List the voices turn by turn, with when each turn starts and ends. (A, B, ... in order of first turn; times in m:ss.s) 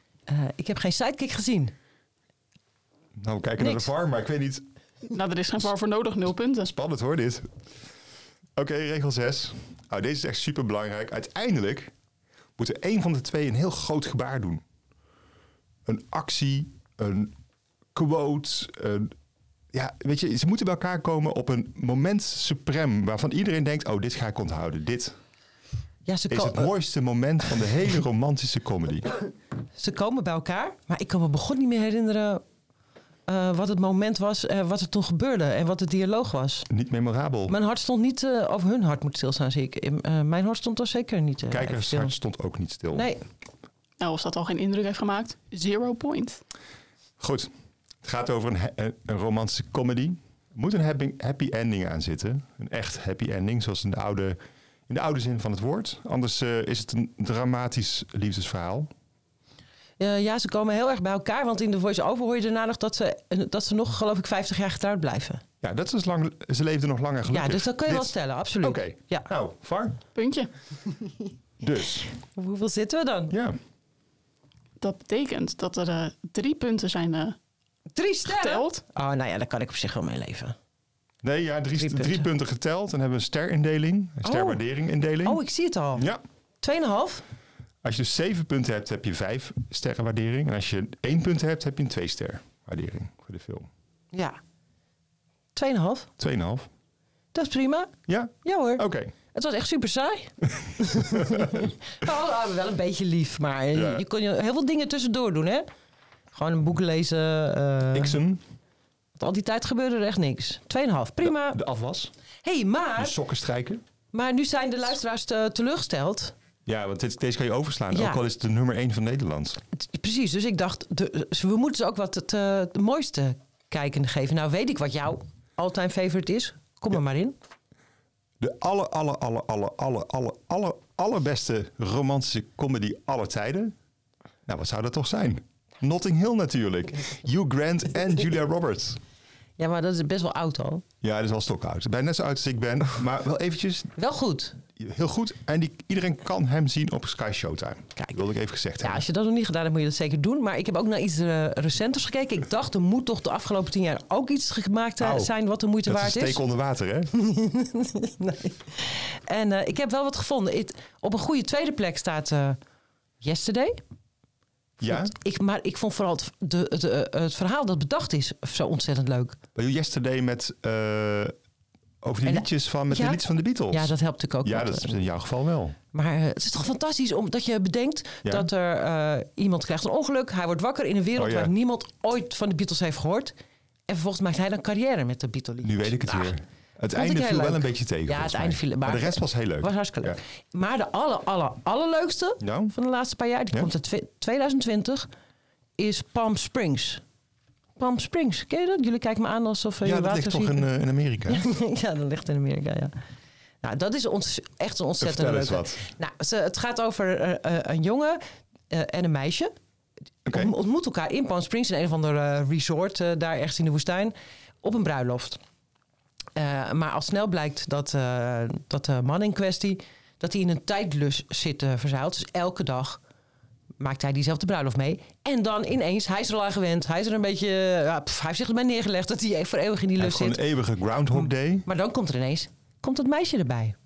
0:00.3-0:01.7 A
0:03.2-0:04.6 B
0:03.6-0:03.9 A
0:05.1-0:06.7 C
0:06.6-0:07.5 B
0:08.6-0:11.9 B
0:12.6-0:14.6 B
0:15.8-0:17.3 B
0:17.9-0:19.1 B
0:19.7-0:25.1 B
0:26.0-0:26.7 A
0:26.3-0:29.1 B
0:29.8-0:32.4 A
0:33.3-0:36.7 A
0:36.7-0:37.5 B
0:37.5-0:42.1 A
0:41.5-0:43.1 B
0:42.9-0:43.2 A
0:44.0-0:46.4 C
0:47.2-0:47.5 B
0:48.0-0:58.9 B
1:00.0-1:05.4 A
1:05.6-1:10.0 B
1:07.3-1:09.3 A
1:10.1-1:10.5 C
1:11.6-1:12.1 B
1:12.3-1:13.3 A
1:13.3-1:13.6 B
1:14.8-1:17.4 C
1:17.9-1:20.5 A
1:18.2-1:18.8 C
1:21.2-1:25.4 B
1:21.8-1:22.3 A
1:24.2-1:24.6 A
1:25.2-1:26.0 A
1:25.9-1:26.2 B
1:26.6-1:27.2 A
1:27.8-1:33.7 B
1:34.1-1:34.4 A
1:35.5-1:36.1 A
1:36.2-1:36.7 B
1:37.3-1:37.9 A
1:38.1-1:39.1 B
1:38.4-1:45.7 A
1:41.0-1:41.6 B
1:43.7-1:44.0 B
1:46.3-1:48.2 A
1:47.9-1:48.4 B
1:49.2-1:51.6 A
1:51.2-1:52.1 B
1:52.4-1:53.1 A
1:53.0-1:53.8 B
1:54.1-1:56.3 A
1:56.6-1:59.6 B
1:57.9-1:58.2 A
1:59.7-2:07.4 A
2:08.4-2:13.7 B
2:14.4-2:19.0 B
2:19.6-2:20.8 A
2:21.0-2:23.9 B
2:24.0-2:24.6 A
2:24.8-2:29.0 B
2:28.8-2:36.4 A
2:35.0-2:35.3 B
2:35.8-2:37.1 B
2:37.1-2:42.6 A
2:43.2-2:43.8 A
2:44.8-2:45.1 B
2:44.8-2:49.4 A
2:49.5-2:51.3 B
2:52.0-2:55.8 B
2:52.2-2:55.0 A
2:55.9-3:03.3 A
3:01.2-3:01.5 B
3:03.9-3:06.3 A
3:05.6-3:10.2 B
3:06.9-3:15.1 A
3:12.4-3:12.7 B
3:15.8-3:17.0 A
3:17.8-3:20.6 A
3:19.8-3:21.4 B
3:21.3-3:22.9 A
3:23.6-3:29.5 A
3:25.0-3:25.8 B
3:30.2-3:30.5 B
3:30.3-3:35.4 A
3:36.4-3:43.0 A
3:43.8-3:50.4 A
3:50.0-3:51.6 B
3:51.1-3:53.8 A